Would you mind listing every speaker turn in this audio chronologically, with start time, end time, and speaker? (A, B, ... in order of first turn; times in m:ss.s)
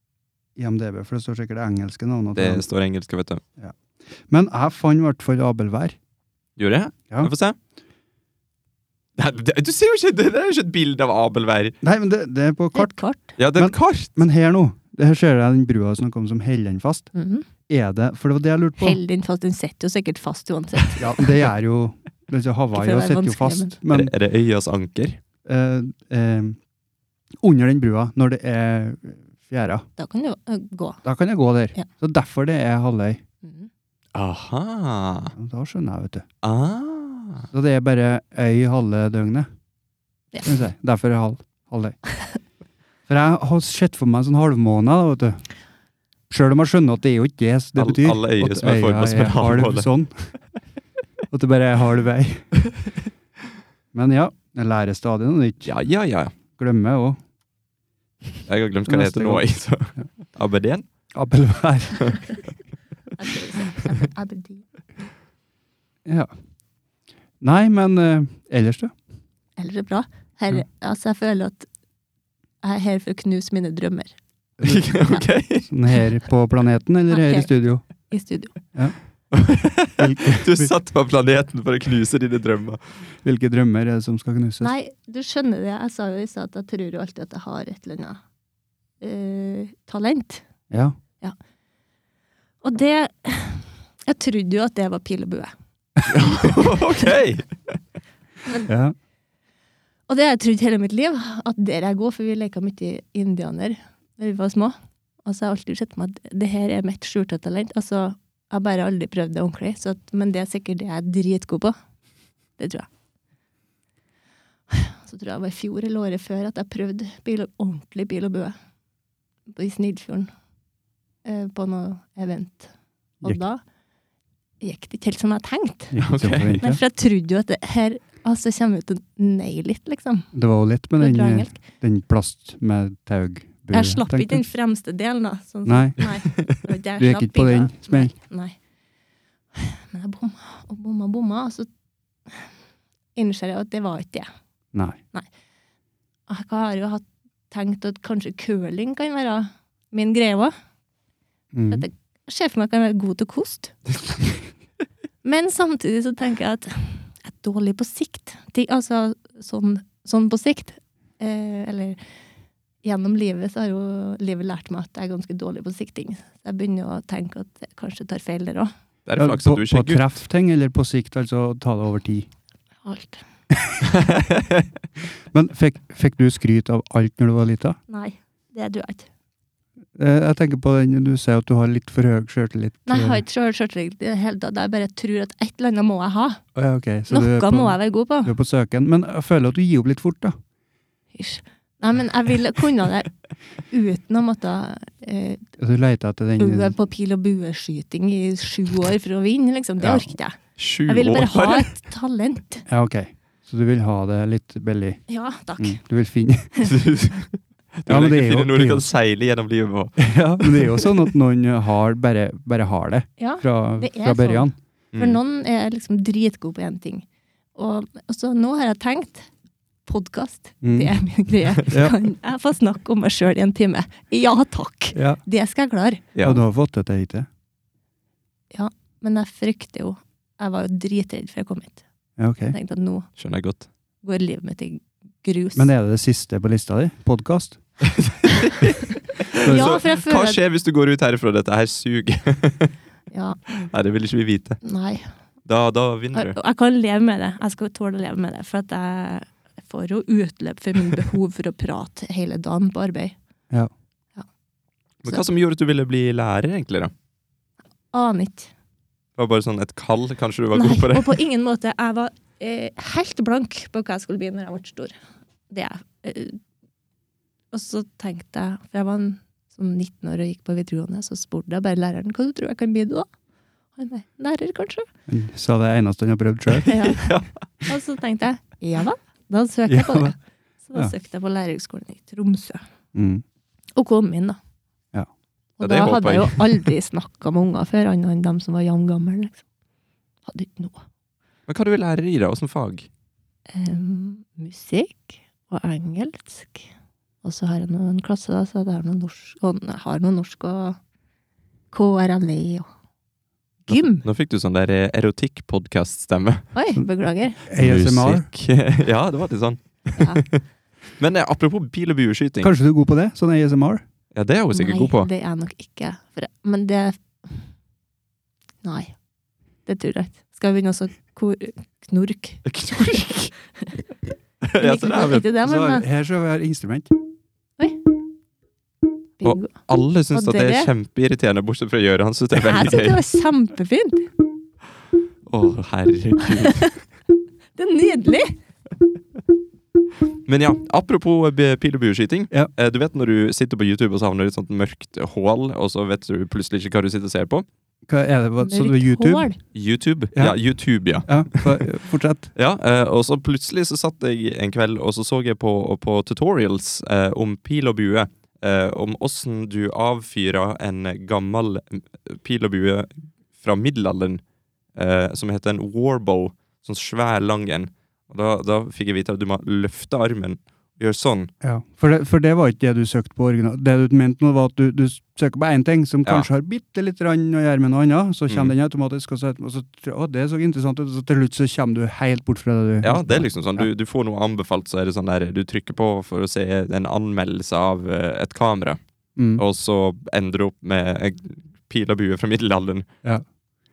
0:00.6-0:02.6 A
0:02.4-0:03.4 B
0:03.6-0:06.0 A
0:06.6-0:07.6 B
0:09.2-0:11.8 B
0:11.8-0:12.9 A
0:12.7-0:13.3 C
0:13.4-0:14.2 B
0:13.6-0:17.1 A
0:17.1-0:17.5 C
0:17.7-0:19.0 A
0:18.8-0:21.3 C
0:21.0-0:24.1 A
0:22.7-0:23.7 C
0:23.9-0:25.2 B
0:25.4-0:26.6 A
0:27.4-0:29.9 A
0:30.0-0:31.0 C
0:31.0-0:33.2 A
0:33.4-0:33.7 C
0:34.1-0:35.3 B
0:35.4-0:36.2 A
0:36.4-0:37.5 B
0:37.5-0:39.5 A
0:40.4-0:42.0 A
0:43.1-0:45.5 A
0:46.3-0:50.3 A
0:47.8-0:49.9 B
0:51.3-0:52.5 A
0:53.9-0:55.7 A
0:55.6-0:56.3 B
0:56.5-0:57.2 A
0:58.5-1:00.8 B
0:58.9-0:59.4 A
1:01.1-1:02.2 A
1:03.2-1:04.6 C
1:06.1-1:06.3 A
1:07.4-1:08.9 A
1:09.6-1:11.7 C
1:12.6-1:14.1 C
1:14.6-1:17.8 A
1:14.6-1:15.7 B
1:17.1-1:17.5 C
1:18.1-1:18.6 C
1:19.3-1:22.8 B
1:20.0-1:20.7 A
1:23.2-1:24.7 A
1:24.6-1:28.2 C
1:29.0-1:30.4 C
1:30.7-1:31.0 A
1:32.6-1:35.5 C
1:36.1-1:37.8 B
1:36.2-1:37.1 C
1:38.7-1:39.0 A
1:40.1-1:51.8 C
1:52.6-1:52.9 C
1:54.7-1:58.6 C
1:59.5-2:00.3 C
2:01.2-2:02.7 C
2:03.2-2:03.6 C
2:04.6-2:06.0 C
2:05.9-2:06.8 A
2:06.0-2:06.6 B
2:06.6-2:10.3 C
2:10.3-2:14.5 A
2:11.0-2:11.6 C
2:13.7-2:18.6 C
2:15.6-2:16.0 A
2:17.0-2:18.1 A
2:19.6-2:21.7 C
2:23.2-2:24.3 C
2:26.3-2:30.5 C
2:31.5-2:31.9 A
2:31.7-2:33.8 C
2:35.2-2:42.0 C
2:42.8-2:48.7 C
2:49.1-2:50.1 B
2:49.2-2:52.3 A
2:52.8-2:53.2 C
2:53.5-2:53.8 A
2:53.9-2:54.6 B
2:55.3-2:57.8 A
2:57.9-2:59.1 C
3:00.0-3:03.2 A
3:02.9-3:06.4 C
3:06.6-3:10.4 A
3:07.1-3:08.3 C
3:11.1-3:13.1 C
3:13.7-3:15.4 C
3:15.6-3:16.8 A
3:16.4-3:22.6 C
3:19.8-3:20.1 A
3:20.6-3:21.7 B
3:22.7-3:25.0 A
3:25.1-3:25.8 C
3:25.6-3:26.5 A
3:26.6-3:31.0 B
3:27.9-3:28.9 A
3:30.0-3:34.6 A
3:33.2-3:39.3 C
3:34.9-3:35.2 B
3:39.9-3:46.0 C
3:40.6-3:40.9 A
3:41.7-3:42.0 A
3:44.9-3:45.2 A
3:46.1-3:46.4 B
3:46.2-3:47.3 A
3:48.5-3:51.8 C
3:52.2-3:52.6 A
3:52.5-3:53.1 C
3:53.2-3:53.7 B
3:54.0-3:55.7 C
3:55.6-3:57.6 A
3:57.8-4:02.7 B
3:59.4-4:00.4 C
3:59.4-3:59.8 A
4:03.1-4:03.4 C
4:03.5-4:04.6 B
4:04.6-4:05.0 C
4:05.5-4:06.4 B
4:06.1-4:13.1 C
4:15.0-4:16.9 B
4:17.9-4:18.5 C
4:19.2-4:21.2 B
4:20.5-4:25.0 C
4:25.5-4:26.4 C
4:27.5-4:33.1 C
4:33.8-4:34.9 C
4:35.1-4:36.7 A
4:36.7-4:37.1 C
4:36.9-4:37.3 B
4:37.6-4:42.6 C
4:39.7-4:40.1 A
4:42.9-4:43.2 A
4:43.8-4:44.4 C
4:45.6-4:49.4 C
4:45.6-4:46.6 B
4:50.2-4:50.8 C
4:51.5-4:52.9 B
4:53.5-4:56.7 C
4:57.2-5:00.8 C
5:01.7-5:02.7 C
5:03.7-5:04.0 C
5:03.7-5:06.5 B
5:06.5-5:07.4 C
5:07.5-5:08.3 A
5:07.6-5:10.4 B
5:10.0-5:10.2 C
5:11.0-5:12.5 B
5:12.4-5:13.8 A
5:14.1-5:15.1 B
5:14.5-5:17.5 C
5:18.6-5:19.0 C
5:19.7-5:23.0 C
5:22.4-5:23.3 B
5:24.4-5:25.3 B
5:24.6-5:25.8 C
5:25.4-5:26.9 A
5:29.2-5:29.5 C
5:29.2-5:33.0 B
5:30.1-5:30.7 C
5:32.4-5:34.1 C
5:35.3-5:36.7 B
5:36.4-5:36.7 C
5:37.5-5:38.4 C
5:40.2-5:47.4 B
5:47.9-5:49.3 A
5:48.4-5:49.4 C
5:49.5-5:51.6 B
5:51.0-5:52.3 A
5:52.3-6:04.2 B
6:04.8-6:11.3 B
6:11.4-6:23.7 A
6:22.8-6:28.8 B
6:29.2-6:29.4 A
6:29.3-6:32.9 B